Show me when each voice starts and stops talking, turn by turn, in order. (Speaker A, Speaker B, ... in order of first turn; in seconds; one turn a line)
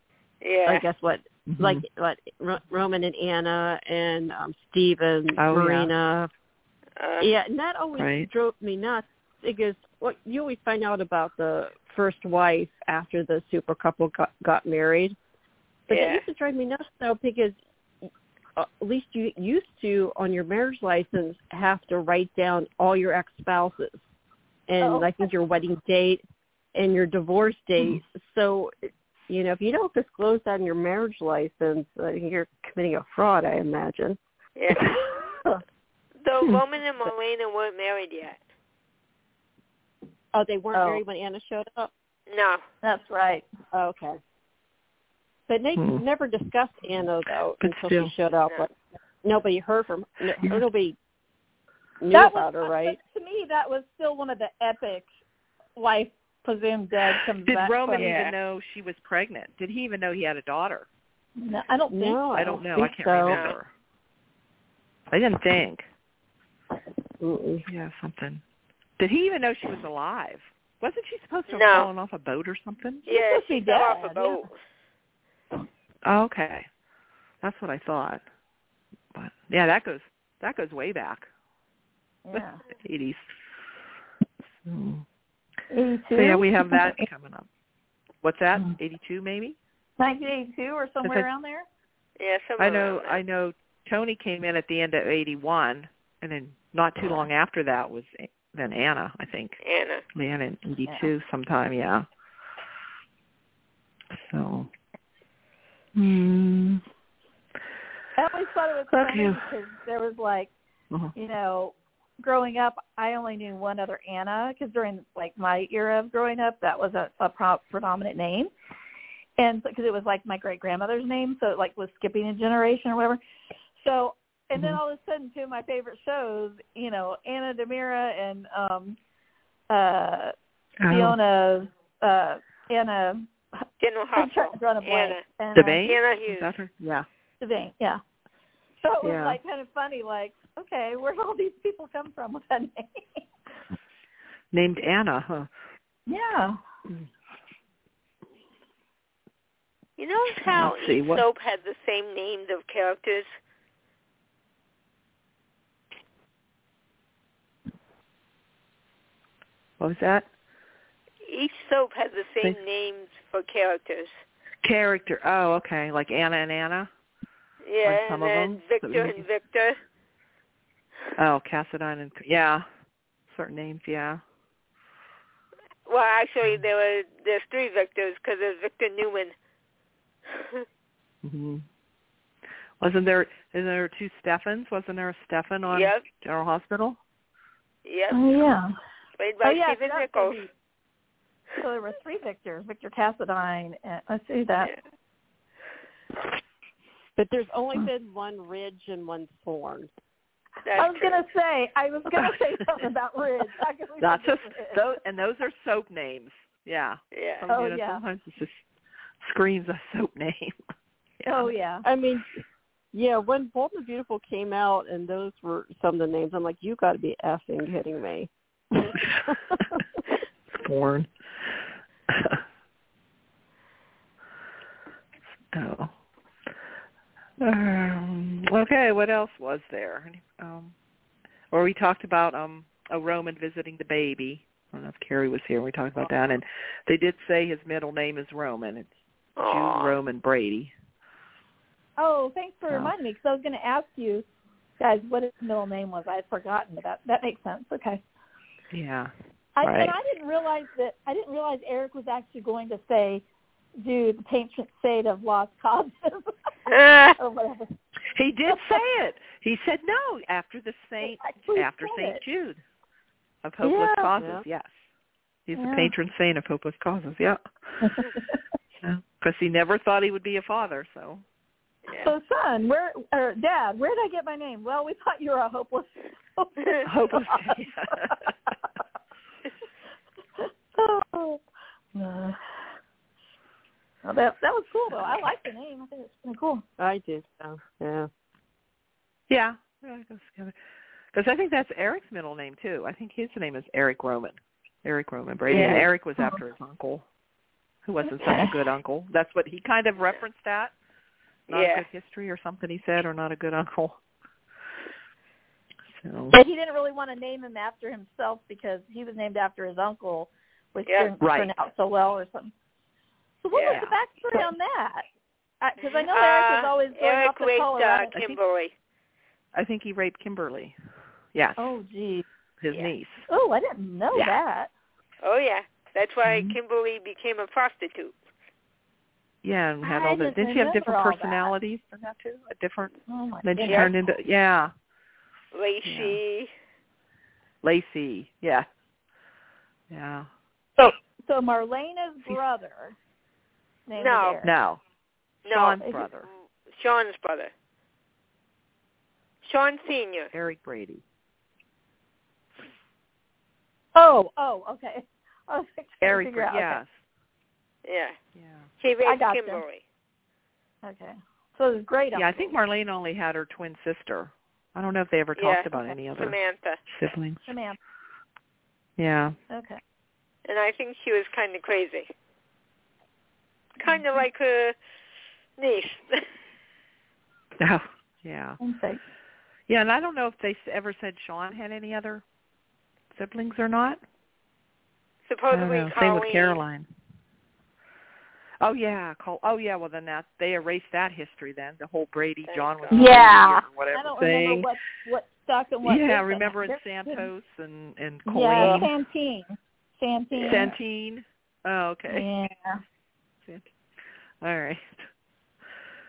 Speaker A: 0.4-0.9
Speaker B: 0.7-6.3
Speaker C: 1.5-1.8
Speaker C: 5.4-5.9
Speaker A: 7.0-7.3
Speaker B: 7.2-15.2
Speaker C: 8.0-8.3
Speaker B: 15.9-24.1
Speaker A: 15.9-16.2
Speaker B: 24.7-26.2
Speaker D: 24.8-25.3
Speaker B: 26.7-34.2
Speaker A: 34.6-34.9
Speaker A: 36.2-38.4
Speaker B: 40.3-41.9
Speaker D: 40.7-41.0
Speaker A: 42.3-42.6
Speaker D: 42.8-43.5
Speaker B: 43.7-44.2
Speaker B: 45.5-51.0
Speaker C: 45.8-46.0
Speaker C: 47.6-48.1
Speaker B: 52.0-53.0
Speaker D: 52.1-55.1
Speaker D: 55.8-58.1
Speaker C: 57.4-60.9
Speaker A: 58.0-58.4
Speaker D: 61.4-62.6
Speaker B: 61.9-63.4
Speaker C: 62.3-63.7
Speaker A: 63.3-63.5
Speaker C: 65.1-65.9
Speaker B: 67.2-67.7
Speaker C: 67.7-68.4
Speaker C: 69.0-73.0
Speaker A: 71.5-71.9
Speaker D: 73.1-74.5
Speaker A: 73.1-74.5
Speaker C: 76.0-76.7
Speaker C: 77.4-78.2
Speaker C: 79.1-81.3
Speaker D: 82.2-82.6
Speaker C: 82.3-83.3
Speaker C: 84.6-85.0
Speaker D: 85.7-87.1
Speaker C: 86.1-87.5
Speaker C: 88.2-89.6
Speaker D: 90.0-91.7
Speaker A: 92.2-93.2
Speaker C: 92.6-99.6
Speaker A: 99.6-100.0
Speaker C: 100.1-102.1
Speaker D: 100.9-101.1
Speaker C: 104.1-104.7
Speaker C: 106.0-106.8
Speaker D: 108.2-110.5
Speaker C: 108.9-109.4
Speaker D: 111.2-118.5
Speaker D: 119.4-123.2
Speaker D: 123.8-129.0
Speaker D: 129.7-130.3
Speaker C: 130.8-131.2
Speaker D: 130.9-133.6
Speaker A: 133.8-135.2
Speaker D: 134.2-135.8
Speaker C: 135.5-137.1
Speaker A: 135.8-136.5
Speaker D: 137.4-138.0
Speaker D: 138.8-143.2
Speaker C: 139.0-139.4
Speaker C: 144.5-145.5
Speaker D: 146.1-146.6
Speaker A: 150.0-153.4
Speaker C: 150.3-151.2
Speaker C: 159.8-160.3
Speaker A: 161.3-164.2
Speaker C: 164.6-166.9
Speaker A: 167.6-169.8
Speaker C: 167.8-169.3
Speaker C: 171.2-172.7
Speaker C: 173.3-174.2
Speaker A: 175.9-179.3
Speaker A: 180.3-180.7
Speaker C: 181.2-181.6
Speaker C: 182.8-187.0
Speaker A: 185.7-186.1
Speaker A: 187.8-188.2
Speaker D: 188.1-188.7
Speaker A: 189.2-190.5
Speaker D: 189.4-190.5
Speaker D: 191.6-194.7
Speaker B: 197.2-199.9
Speaker A: 200.6-201.2
Speaker D: 200.8-204.9
Speaker C: 204.0-208.7
Speaker A: 207.1-207.4
Speaker D: 207.5-208.0
Speaker C: 209.2-210.6
Speaker C: 211.2-211.5
Speaker D: 211.3-211.8
Speaker B: 211.8-212.3
Speaker B: 212.9-219.8
Speaker C: 218.8-219.1
Speaker C: 220.5-222.4
Speaker C: 225.5-225.9
Speaker C: 227.4-230.7
Speaker C: 231.5-240.7
Speaker A: 239.4-239.9
Speaker D: 242.0-244.3
Speaker C: 242.7-242.9
Speaker D: 244.8-248.0
Speaker C: 248.7-249.1
Speaker D: 249.6-253.2
Speaker C: 249.6-249.9
Speaker D: 253.8-256.3
Speaker A: 256.7-257.2
Speaker D: 257.2-257.7
Speaker C: 258.1-262.6
Speaker D: 258.5-258.8
Speaker D: 261.0-262.2
Speaker C: 263.4-264.9
Speaker D: 263.6-264.1
Speaker B: 264.2-264.4
Speaker C: 265.5-268.0
Speaker D: 265.6-265.9
Speaker D: 267.8-268.4
Speaker C: 268.8-271.2
Speaker A: 271.9-272.1
Speaker D: 271.9-278.3
Speaker C: 276.9-278.3
Speaker D: 280.4-281.4
Speaker D: 281.9-282.6
Speaker D: 284.0-286.6
Speaker C: 284.9-285.2
Speaker B: 286.8-288.1
Speaker C: 289.3-290.6
Speaker C: 291.1-297.1
Speaker A: 295.5-295.8
Speaker B: 295.5-295.9
Speaker C: 297.9-300.7
Speaker D: 298.0-298.5
Speaker C: 301.5-304.0
Speaker A: 301.5-301.9
Speaker C: 305.9-306.4
Speaker D: 306.3-312.5
Speaker C: 311.2-311.5
Speaker D: 313.4-315.1
Speaker A: 313.5-313.8
Speaker C: 313.7-313.9
Speaker D: 315.6-318.2
Speaker A: 315.8-318.7
Speaker C: 318.1-318.4
Speaker C: 319.5-320.8
Speaker C: 321.3-321.6
Speaker D: 321.6-322.3
Speaker C: 322.6-323.3
Speaker D: 323.3-324.7
Speaker A: 325.2-328.2
Speaker C: 326.2-326.6
Speaker C: 329.4-332.9
Speaker D: 329.8-331.5
Speaker D: 333.1-333.9
Speaker C: 333.4-334.7
Speaker A: 333.6-333.9
Speaker A: 335.5-336.5
Speaker C: 335.9-336.2
Speaker C: 337.6-338.7
Speaker C: 339.9-340.3
Speaker D: 340.8-343.0
Speaker D: 343.9-344.5
Speaker A: 344.0-344.4
Speaker C: 344.4-344.8
Speaker A: 345.4-347.5
Speaker C: 345.5-346.3
Speaker A: 349.4-350.3
Speaker C: 350.3-351.0
Speaker D: 353.9-356.8
Speaker C: 356.0-357.0
Speaker A: 357.9-358.2
Speaker C: 358.4-358.7
Speaker A: 358.8-359.8
Speaker D: 359.0-359.6
Speaker D: 360.8-362.5
Speaker C: 362.1-366.4
Speaker A: 365.4-366.8
Speaker C: 366.9-367.5
Speaker D: 367.5-367.8
Speaker C: 369.0-369.4
Speaker D: 369.5-369.8
Speaker A: 370.5-372.1
Speaker A: 373.8-374.8
Speaker A: 375.6-376.3
Speaker C: 377.6-378.6
Speaker D: 378.6-379.0
Speaker C: 379.7-382.2
Speaker C: 383.1-384.0
Speaker A: 385.3-386.6
Speaker C: 385.5-386.9
Speaker C: 388.6-394.7
Speaker A: 392.5-393.2
Speaker D: 392.9-397.3
Speaker C: 395.8-398.9
Speaker D: 398.3-400.8
Speaker A: 398.6-398.9
Speaker A: 400.3-400.6
Speaker C: 400.4-402.3
Speaker D: 402.1-402.8
Speaker C: 403.4-403.7
Speaker C: 404.4-405.1